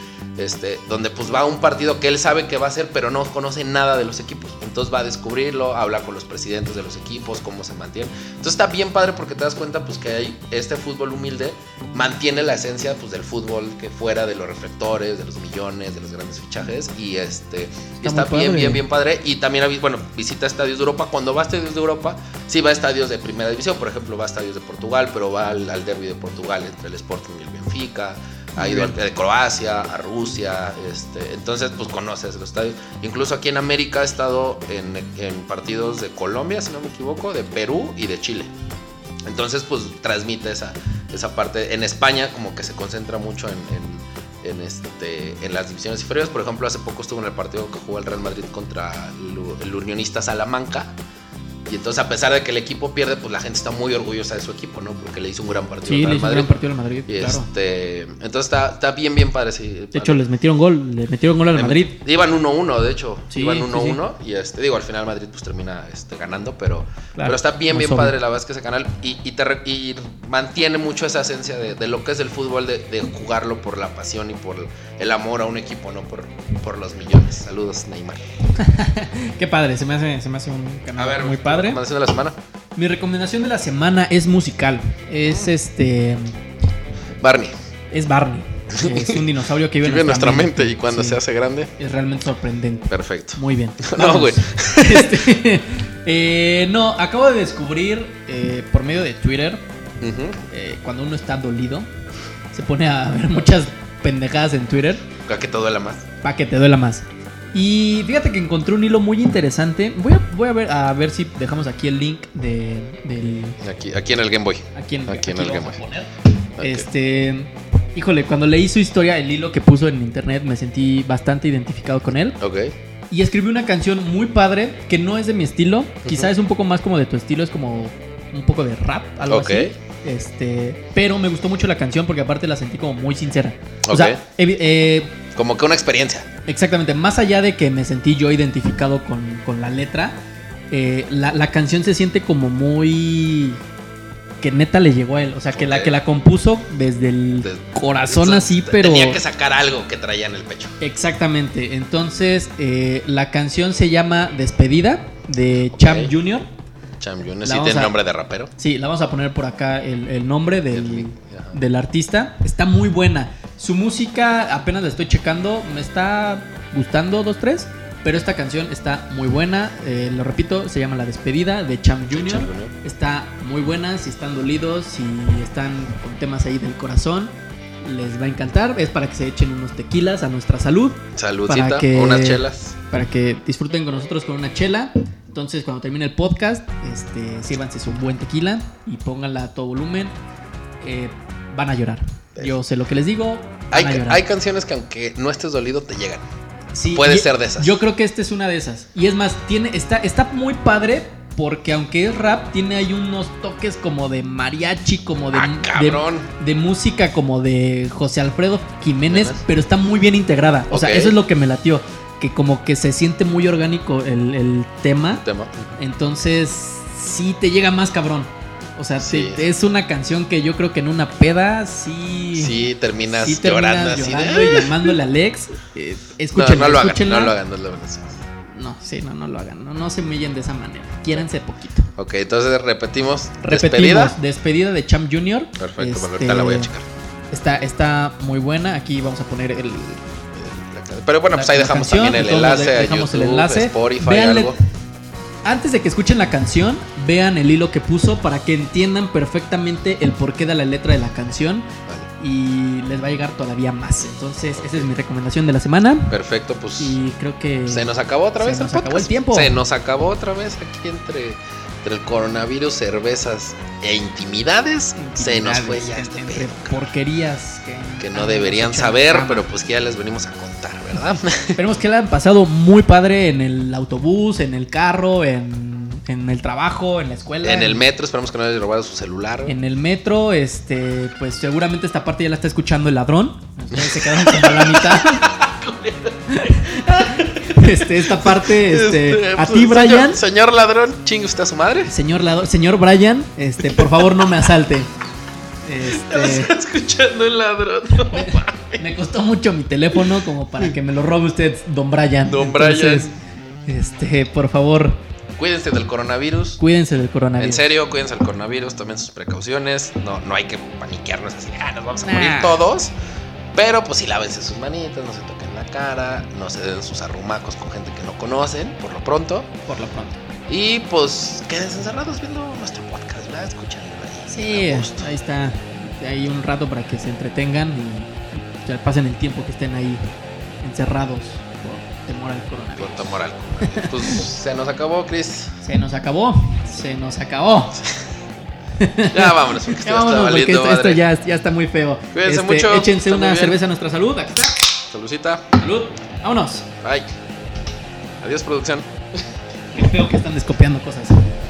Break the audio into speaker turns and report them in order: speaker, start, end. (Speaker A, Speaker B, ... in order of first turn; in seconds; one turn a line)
Speaker A: 0.4-38.5
Speaker B: 18.0-18.8
Speaker B: 28.6-29.0
Speaker A: 39.2-51.0
Speaker A: 51.7-56.5
Speaker B: 55.9-57.5
Speaker A: 57.1-60.2
Speaker B: 59.9-62.0
Speaker A: 61.5-78.2
Speaker B: 63.3-64.0
Speaker B: 67.2-68.2
Speaker B: 78.6-81.8
Speaker A: 81.0-82.3
Speaker B: 82.8-86.4
Speaker A: 85.2-85.5
Speaker A: 87.2-87.5
Speaker B: 87.9-91.2
Speaker A: 88.7-89.3
Speaker A: 89.8-91.7
Speaker B: 91.8-99.6
Speaker A: 92.9-95.3
Speaker A: 100.0-100.4
Speaker B: 100.5-101.9
Speaker B: 102.5-105.0
Speaker A: 105.3-106.1
Speaker B: 106.2-113.6
Speaker A: 113.6-115.8
Speaker B: 114.8-122.4
Speaker A: 116.6-116.9
Speaker A: 122.4-122.7
Speaker B: 123.1-135.2
Speaker A: 126.0-126.3
Speaker A: 129.3-129.8
Speaker A: 133.8-134.2
Speaker A: 135.3-136.3
Speaker B: 136.5-140.2
Speaker B: 140.7-143.6
Speaker B: 144.4-149.2
Speaker A: 145.6-145.9
Speaker A: 147.4-150.8
Speaker B: 150.8-156.4
Speaker A: 155.7-156.1
Speaker A: 157.0-158.5
Speaker B: 157.4-157.9
Speaker B: 158.6-190.1
Speaker A: 160.7-161.6
Speaker A: 172.1-172.7
Speaker A: 181.2-182.8
Speaker B: 190.8-194.2
Speaker A: 193.7-196.3
Speaker B: 196.7-215.2
Speaker A: 196.9-197.8
Speaker A: 205.3-206.3
Speaker A: 209.1-209.4
Speaker A: 210.7-211.2
Speaker A: 215.2-215.8
Speaker B: 215.8-222.5
Speaker A: 219.0-219.4
Speaker A: 222.4-225.0
Speaker B: 223.1-227.4
Speaker A: 226.3-228.2
Speaker B: 228.6-231.9
Speaker A: 232.0-234.2
Speaker B: 233.4-236.7
Speaker A: 235.6-236.9
Speaker B: 237.3-240.0
Speaker A: 240.3-244.6
Speaker B: 241.3-244.6
Speaker B: 245.4-256.1
Speaker A: 254.6-254.9
Speaker A: 256.1-257.0
Speaker B: 256.8-259.6
Speaker A: 257.7-266.8
Speaker B: 265.0-269.4
Speaker A: 268.0-271.6
Speaker B: 271.6-277.9
Speaker A: 277.4-279.6
Speaker B: 279.5-285.4
Speaker A: 283.7-291.9
Speaker B: 286.3-290.2
Speaker B: 291.9-294.9
Speaker A: 293.7-294.5
Speaker B: 295.6-296.5
Speaker A: 295.9-298.8
Speaker B: 298.1-303.1
Speaker A: 302.3-303.2
Speaker B: 303.7-305.0
Speaker A: 305.4-306.6
Speaker B: 306.6-307.6
Speaker A: 307.4-312.9
Speaker B: 312.0-312.6
Speaker A: 313.5-319.5
Speaker B: 319.7-320.2
Speaker A: 320.5-325.1
Speaker B: 324.3-330.0
Speaker B: 330.6-333.1
Speaker A: 332.8-335.5
Speaker B: 333.6-334.2
Speaker B: 335.6-337.8
Speaker B: 338.8-344.7
Speaker A: 339.1-341.0
Speaker A: 342.1-343.6
Speaker A: 344.9-345.5
Speaker B: 345.6-346.7
Speaker A: 346.8-347.1
Speaker A: 348.2-349.3
Speaker B: 349.8-351.3